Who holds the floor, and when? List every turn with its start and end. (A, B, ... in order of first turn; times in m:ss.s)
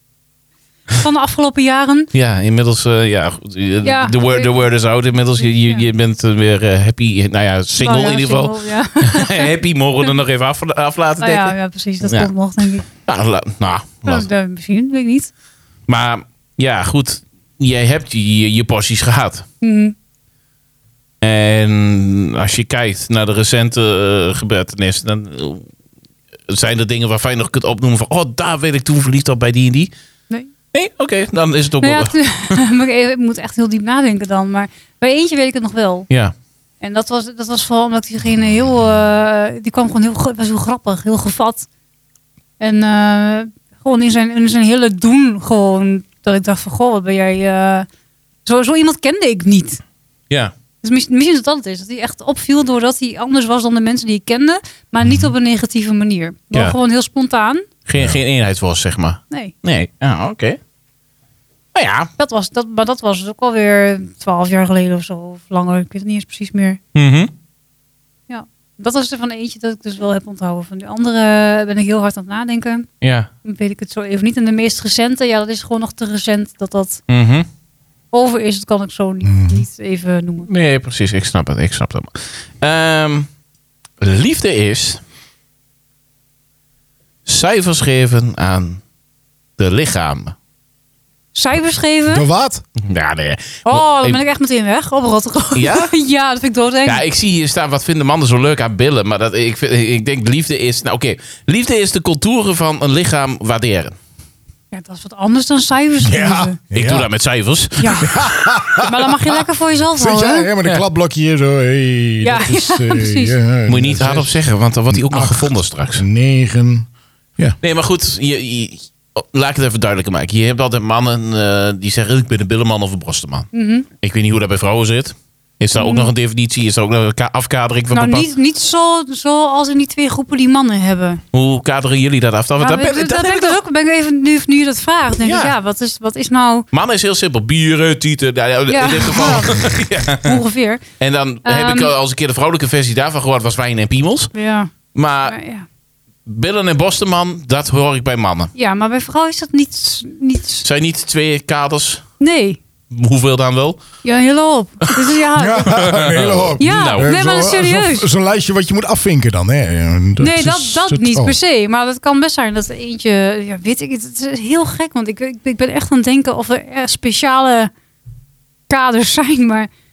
0:01.0-0:02.1 A
0:02.1-0:12.3 B
0:03.8-0:04.6 A
0:05.4-0:05.8 A
0:07.8-0:09.5 A
0:11.2-0:12.9 A
0:12.9-0:14.3 B
0:14.0-0:15.3 A
0:15.9-0:19.4 B
0:19.6-0:19.9 A
0:21.2-0:25.7 B
0:26.5-0:29.9 B
0:30.7-0:32.6 B
0:31.8-0:36.1 A
0:36.8-0:41.7 A
0:42.6-0:47.9 A
0:48.4-0:49.8 A
0:50.8-0:57.6 A
0:57.8-1:00.6 B
1:01.7-1:02.1 B
1:02.2-1:06.8 A
1:06.9-1:07.3 B
1:08.3-1:12.9 A
1:13.0-1:13.3 B
1:13.4-1:17.0 A
1:17.1-1:17.5 B
1:18.1-1:20.5 A
1:19.2-1:19.6 C
1:20.5-1:23.3 B
1:24.0-1:25.0 B
1:27.2-1:28.8 B
1:29.6-1:30.3 B
1:31.3-1:32.2 A
1:32.1-1:32.6 C
1:32.8-1:34.2 B
1:33.6-1:37.0 A
1:35.5-1:35.9 B
1:36.8-1:43.9 B
1:44.7-1:46.6 A
1:46.0-1:47.1 C
1:46.7-1:48.3 B
1:47.8-1:48.1 A
1:48.0-1:49.1 C
1:48.8-1:50.5 A
1:50.0-1:54.3 C
1:52.2-1:53.4 A
1:53.7-1:56.0 B
1:54.9-1:57.6 C
1:57.6-2:03.5 B
2:03.5-2:03.8 A
2:04.0-2:08.3 B
2:05.8-2:06.1 A
2:07.9-2:11.2 A
2:11.3-2:13.6 B
2:12.6-2:16.6 A
2:15.2-2:15.5 B
2:16.7-2:20.4 B
2:18.7-2:20.8 A
2:21.0-2:24.3 B
2:21.4-2:21.9 A
2:24.3-2:24.7 A
2:24.9-2:25.4 B
2:25.2-2:25.6 A
2:26.2-2:28.5 B
2:28.5-2:30.6 A
2:30.6-2:32.0 B
2:32.2-2:32.6 A
2:32.9-2:33.8 B
2:34.0-2:35.8 A
2:35.4-2:41.4 C
2:35.6-2:37.1 B
2:36.6-2:38.1 A
2:40.2-2:47.7 A
2:48.7-2:49.7 A